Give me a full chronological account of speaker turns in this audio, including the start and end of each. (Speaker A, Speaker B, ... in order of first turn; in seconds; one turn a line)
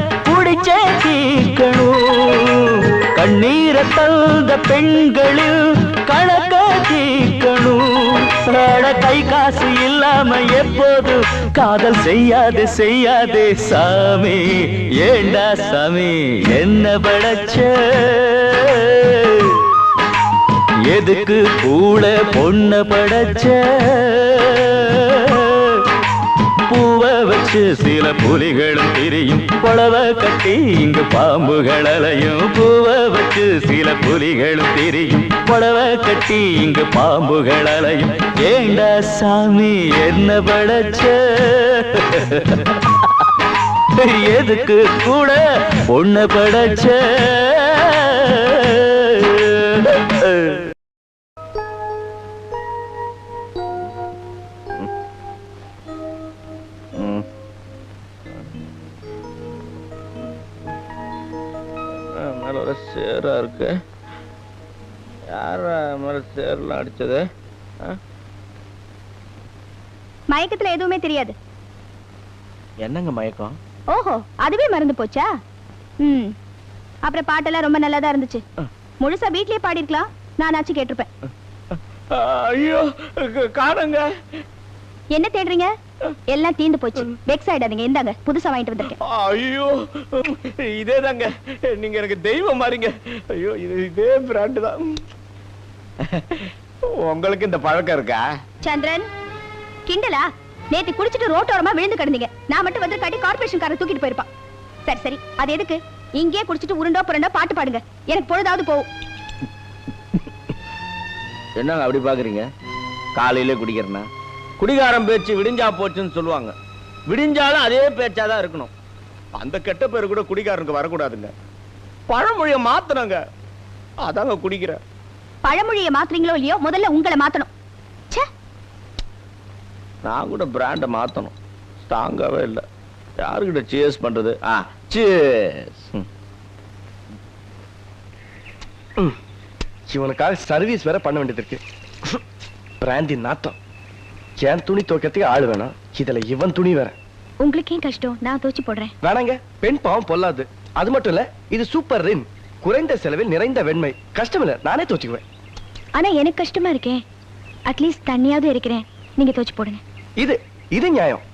Speaker A: 0.2-19.6
Speaker A: 20.9-25.8
Speaker A: 26.7-42.6
Speaker A: 44.0-50.6
Speaker B: 57.0-57.2
Speaker B: 62.2-63.8
Speaker B: 65.3-67.2
Speaker C: 70.3-71.3
Speaker B: 72.8-73.5
Speaker C: 73.9-75.3
Speaker C: 76.0-76.3
Speaker C: 77.0-78.4
Speaker C: 79.0-81.1
Speaker B: 82.1-84.1
Speaker C: 85.1-85.7
Speaker C: 86.3-89.0
Speaker B: 89.0-95.0
Speaker B: 96.0-98.2
Speaker C: 98.6-99.1
Speaker C: 99.9-104.3
Speaker C: 104.9-108.9
Speaker B: 111.6-112.5
Speaker B: 113.2-114.1
Speaker B: 114.6-116.5
Speaker B: 117.1-118.7
Speaker B: 119.4-121.3
Speaker B: 122.1-123.2
Speaker B: 124.0-124.8
Speaker C: 125.5-127.5
Speaker B: 130.1-131.3
Speaker B: 131.9-132.6
Speaker B: 133.2-136.0
Speaker D: 139.9-142.2
Speaker D: 142.8-143.6
Speaker D: 144.4-146.9
Speaker C: 147.4-148.9
Speaker D: 149.0-155.2
Speaker C: 156.0-157.0
Speaker C: 157.7-159.8
Speaker D: 160.2-161.2